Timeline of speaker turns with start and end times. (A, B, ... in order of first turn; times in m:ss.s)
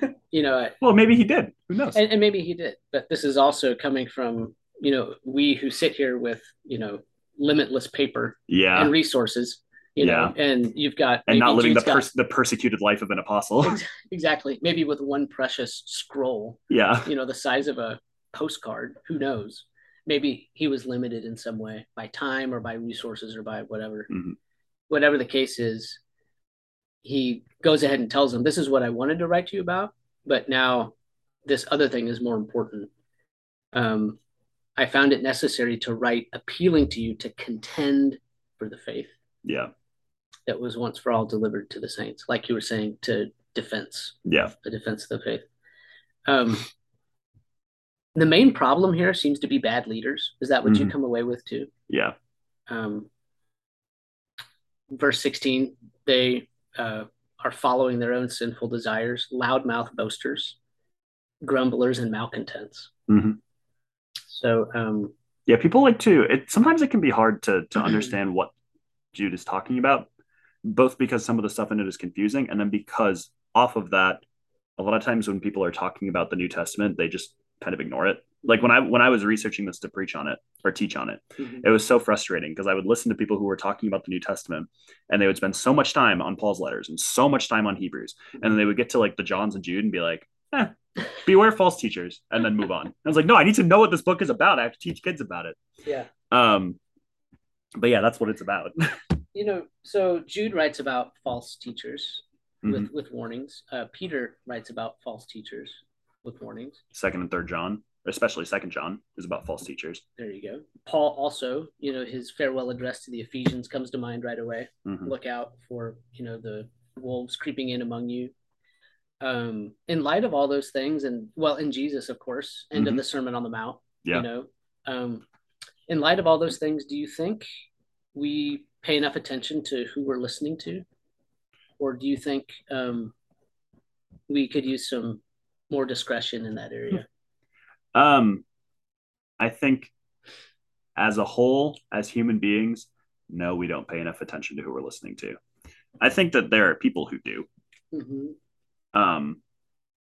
0:00.3-0:00.8 A
0:00.8-0:02.0 B
0:01.9-0:12.0 A
0:08.5-0:08.9 B
0:10.0-0:10.3 B
0:11.3-0:13.8 B
0:13.6-0:24.1 A
0:16.7-0:17.1 B
0:24.1-0:24.4 B
0:24.9-0:26.0 A
0:27.0-0:30.9 A
0:31.4-0:32.9 A
0:33.7-0:34.2 A
0:34.8-0:39.1 A
0:39.4-0:39.7 B
0:40.5-0:45.4 A
0:44.2-0:44.5 B
0:46.2-0:46.7 A
0:48.1-0:51.7 A
0:50.6-0:50.9 B
0:51.9-0:52.1 B
0:52.7-0:53.1 A
0:54.9-1:00.6 A
1:01.4-1:02.9 A
1:03.1-1:03.4 B
1:04.3-1:05.1 A
1:05.5-1:08.5 B
1:09.1-1:10.1 B
1:10.6-1:14.2 B
1:14.8-1:35.6 B
1:36.3-1:36.8 B
1:37.8-1:39.0 B
1:39.3-1:46.8 A
1:42.6-1:42.9 B
1:46.9-1:50.0 B
1:50.2-1:58.3 A
1:54.8-1:55.1 B
1:59.2-2:05.2 A
2:02.7-2:03.0 B
2:05.9-2:07.5 A
2:08.1-2:10.8 A
2:11.8-2:13.1 A
2:14.3-2:17.0 A
2:17.9-2:18.4 B
2:19.4-2:19.9 B
2:21.0-2:25.4 B
2:26.0-2:27.5 B
2:27.9-2:28.4 A
2:28.9-2:29.4 B